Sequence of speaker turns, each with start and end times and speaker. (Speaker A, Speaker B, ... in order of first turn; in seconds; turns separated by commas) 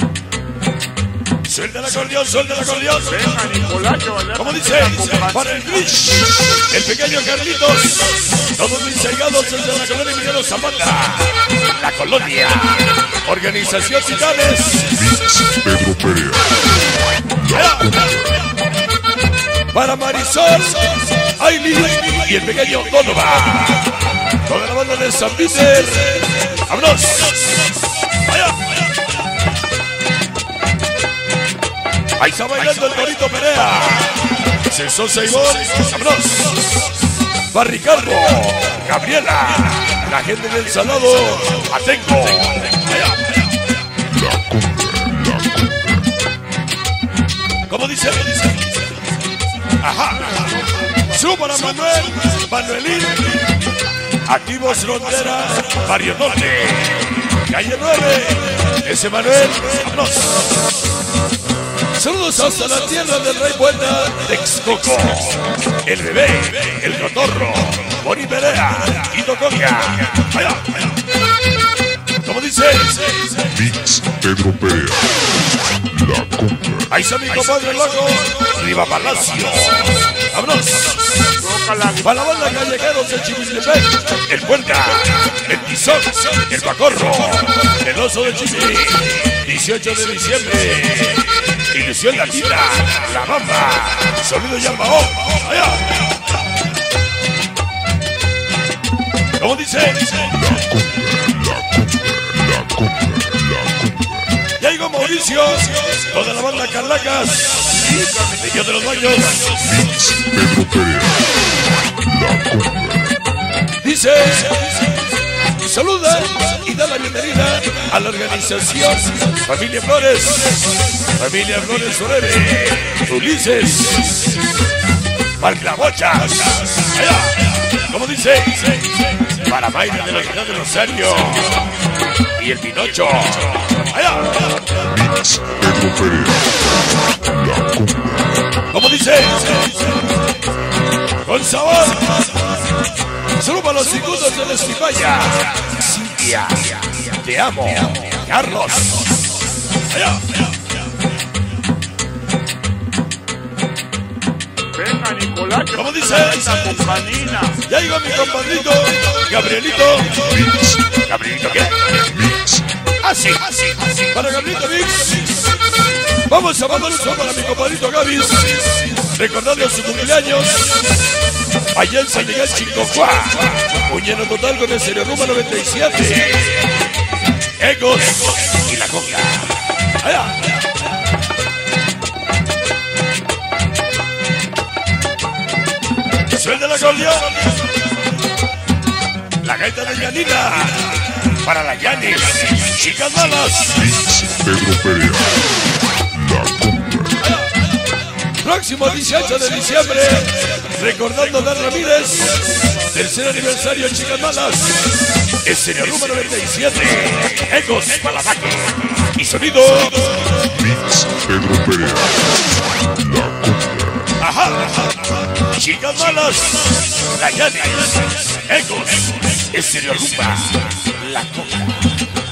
Speaker A: 1.4-3.2, Speaker B: 3.1-5.9, Speaker A: 4.3-15.2, Speaker C: 15.1-16.6, Speaker A: 17.3-18.4, Speaker A: 19.7-27.6, Speaker A: 28.2-28.7, Speaker A: 32.2-36.6, Speaker A: 37.4-43.4, Speaker C: 44.1-46.1, Speaker A: 47.7-48.6, Speaker A: 49.8-53.5, Speaker A: 54.2-60.5, Speaker A: 61.9-70.9, Speaker A: 72.2-73.4, Speaker C: 73.6-75.2, Speaker C: 75.9-76.8, Speaker A: 76.8-81.1, Speaker B: 81.4-82.4, Speaker A: 82.0-96.1, Speaker A: 99.4-100.5, Speaker C: 100.4-104.2, Speaker A: 104.6-109.8, Speaker B: 107.8-108.4, Speaker C: 109.6-111.3, Speaker C: 112.0-113.2, Speaker A: 113.8-124.3, Speaker A: 125.4-131.7, Speaker A: 132.4-134.7, Speaker C: 134.8-138.4, Speaker A: 138.7-139.8, Speaker A: 141.2-142.3, Speaker A: 143.3-149.1, Speaker A: 149.9-150.3, Speaker B: 154.7-157.6, Speaker A: 155.7-156.8, Speaker A: 157.6-162.3, Speaker C: 160.4-160.8, Speaker C: 162.2-162.6, Speaker A: 163.0-165.5, Speaker A: 166.1-170.8, Speaker A: 171.7-176.8, Speaker A: 177.5-180.6, Speaker A: 186.3-187.6, Speaker A: 189.4-194.3, Speaker C: 194.0-195.3, Speaker C: 196.1-197.2, Speaker A: 198.3-210.4, Speaker C: 210.4-212.2, Speaker C: 212.9-214.1, Speaker A: 214.2-221.9